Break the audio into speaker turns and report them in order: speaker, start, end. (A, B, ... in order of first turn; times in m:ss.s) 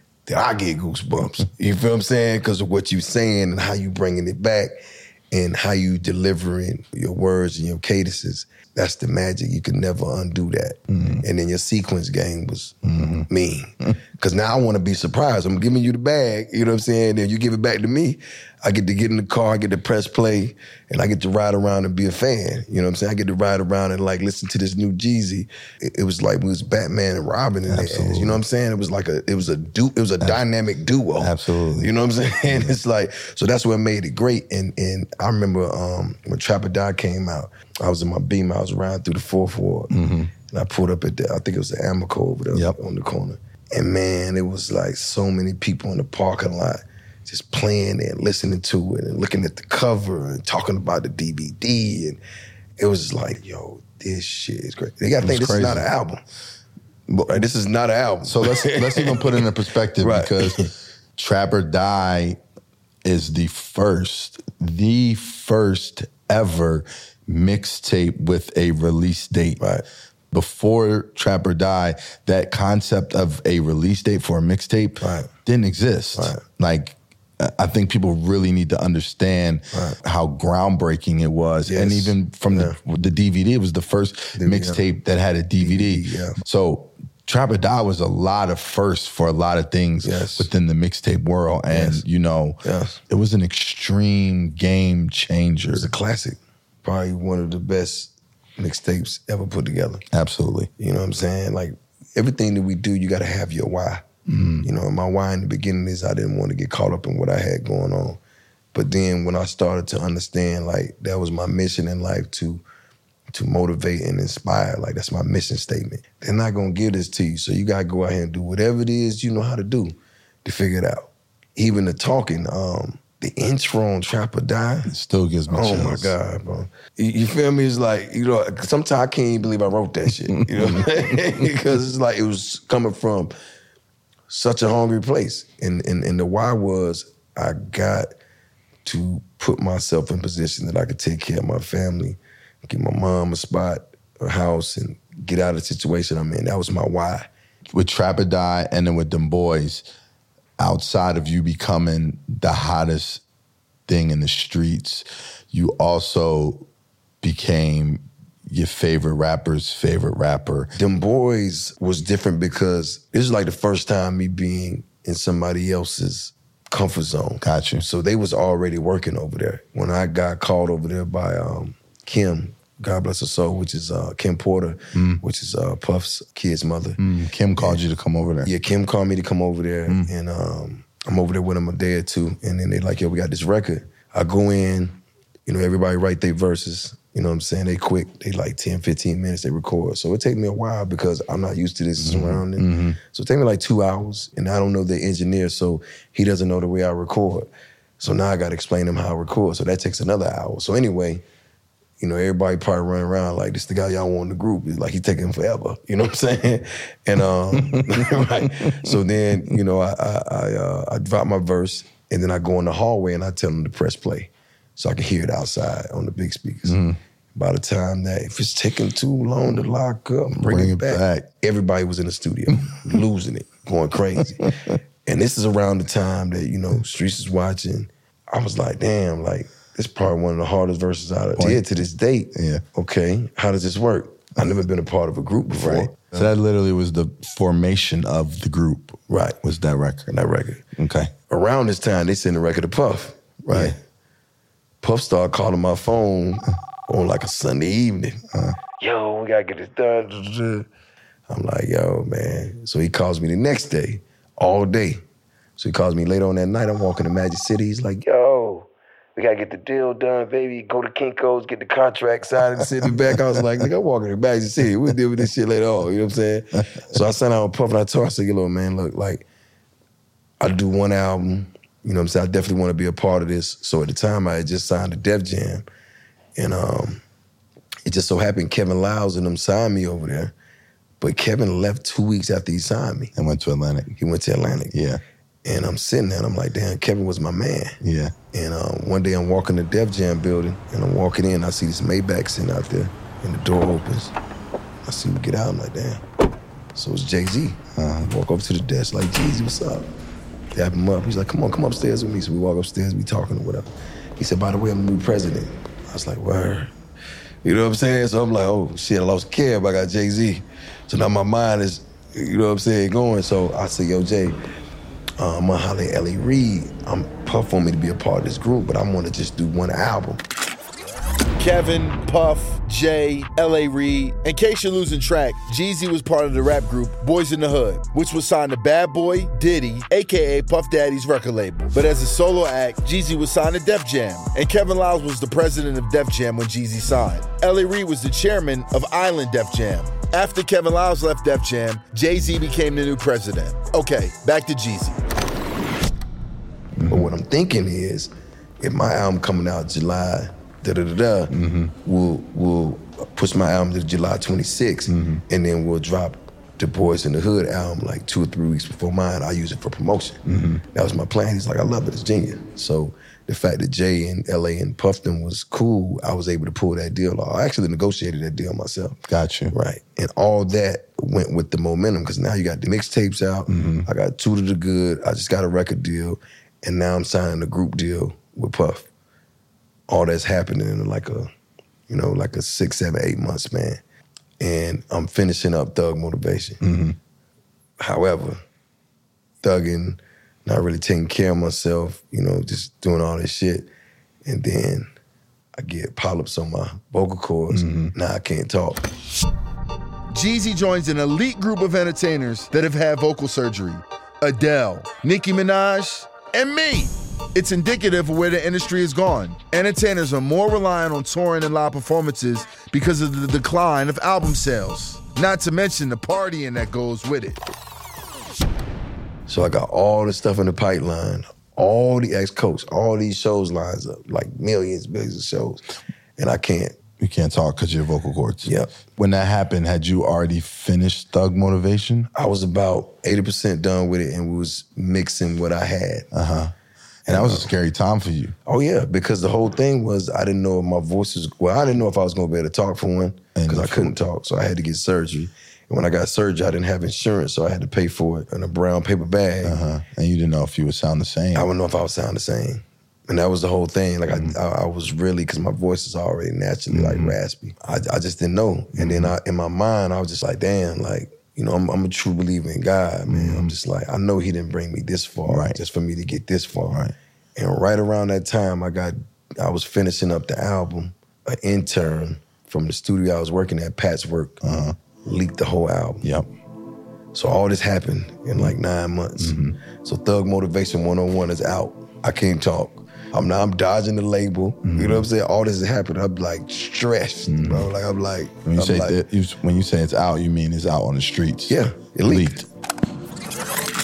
0:00.2-0:04.7 A
0:05.3-0:12.8 A
0:10.9-0:11.2 B
0:12.8-0:13.3 B
0:13.3-0:39.9 A
0:27.7-0:28.4 B
0:31.2-0:31.9 B
0:39.9-0:40.3 B
0:40.5-0:52.2 A
0:52.8-0:56.2 A
0:55.2-0:55.8 B
0:57.1-0:57.4 B
0:57.3-0:59.4 A
0:58.2-1:02.4 B
1:00.0-1:00.7 A
1:03.0-1:09.6 B
1:10.3-1:32.6 B
1:15.0-1:15.3 A
1:16.1-1:16.4 A
1:19.7-1:20.0 A
1:21.6-1:22.8 A
1:24.4-1:24.8 A
1:25.6-1:26.4 A
1:30.0-1:30.5 A
1:31.7-1:32.0 A
1:32.6-1:33.0 A
1:33.1-1:35.9 B
1:35.7-1:40.0 A
1:40.1-1:40.7 B
1:40.8-1:44.0 A
1:44.3-1:44.7 B
1:44.6-1:48.2 A
1:48.7-1:52.6 A
1:53.3-2:04.9 A
2:04.9-2:06.2 B
2:05.5-2:13.3 A
2:10.4-2:10.8 B
2:14.3-2:18.1 A
2:18.8-2:27.3 A
2:27.7-2:29.8 B
2:30.6-2:33.2 B
2:33.9-2:36.7 B
2:37.2-2:40.7 B
2:40.8-2:57.0 A
2:47.4-2:47.8 B
2:54.9-2:55.2 B
2:57.0-2:58.5 B
2:57.6-2:57.8 A
2:58.4-3:17.5 A
3:12.0-3:13.0 B
3:18.0-3:21.2 A
3:22.0-3:36.8 A
3:27.5-3:28.9 B
3:36.6-3:37.0 B
3:37.3-3:44.5 A
3:40.3-3:41.3 B
3:42.7-3:43.0 B
3:44.4-3:44.8 B
3:45.0-3:56.1 A
3:51.4-3:51.6 B
3:52.3-3:52.6 B
3:55.6-4:00.1 B
3:59.1-3:59.4 A
4:00.1-4:00.6 A
4:00.8-4:01.1 B
4:01.3-4:03.8 A
4:03.5-4:03.7 B
4:04.8-4:08.2 A
4:08.8-4:10.7 A
4:11.3-4:15.0 A
4:15.6-4:29.3 A
4:30.4-4:35.6 A
4:36.4-4:37.0 A
4:37.8-4:40.3 A
4:41.0-4:43.1 A
4:43.1-4:43.9 B
4:44.0-4:44.7 A
4:44.7-4:45.0 B
4:45.4-4:47.8 A
4:47.8-4:48.1 B
4:48.3-4:54.1 A
4:54.8-4:56.0 A
4:56.7-4:59.9 A
4:57.8-4:58.1 B
5:00.5-5:06.7 A
5:07.4-5:14.4 A
5:15.2-5:20.2 A
5:21.4-5:45.0 C
5:46.8-5:47.1 B
5:46.9-6:00.2 A
5:51.3-5:51.7 B
5:54.9-5:55.2 B
6:00.2-6:00.6 B
6:00.7-6:09.0 A
6:09.1-6:09.5 B
6:09.5-6:18.9 A
6:13.5-6:13.9 B
6:19.9-6:21.3 A
6:21.9-6:23.8 A
6:24.4-6:26.6 A
6:26.6-6:27.0 B
6:27.8-6:28.4 A
6:29.4-6:33.7 A
6:34.2-6:34.9 A
6:35.6-6:38.8 A
6:37.5-6:37.9 B
6:40.1-6:57.4 C
6:59.3-7:05.6 A
7:06.2-7:06.8 A
7:07.0-7:12.1 B
7:08.4-7:08.8 A
7:12.1-7:16.1 A
7:16.1-7:16.5 B
7:17.1-7:17.5 A
7:17.1-7:18.3 B
7:18.4-7:29.6 A
7:23.4-7:23.9 B
7:29.4-7:31.5 B
7:31.3-7:46.8 A
7:36.7-7:37.2 B
7:38.8-7:39.1 B
7:43.1-7:43.5 B
7:45.3-7:45.6 B
7:47.4-7:54.4 A
7:54.4-7:54.8 B
7:55.0-7:56.0 A
7:57.1-8:09.0 A
7:59.2-7:59.6 B
8:04.6-8:05.1 B
8:07.3-8:07.7 B
8:08.4-8:12.5 B
8:11.5-8:12.4 A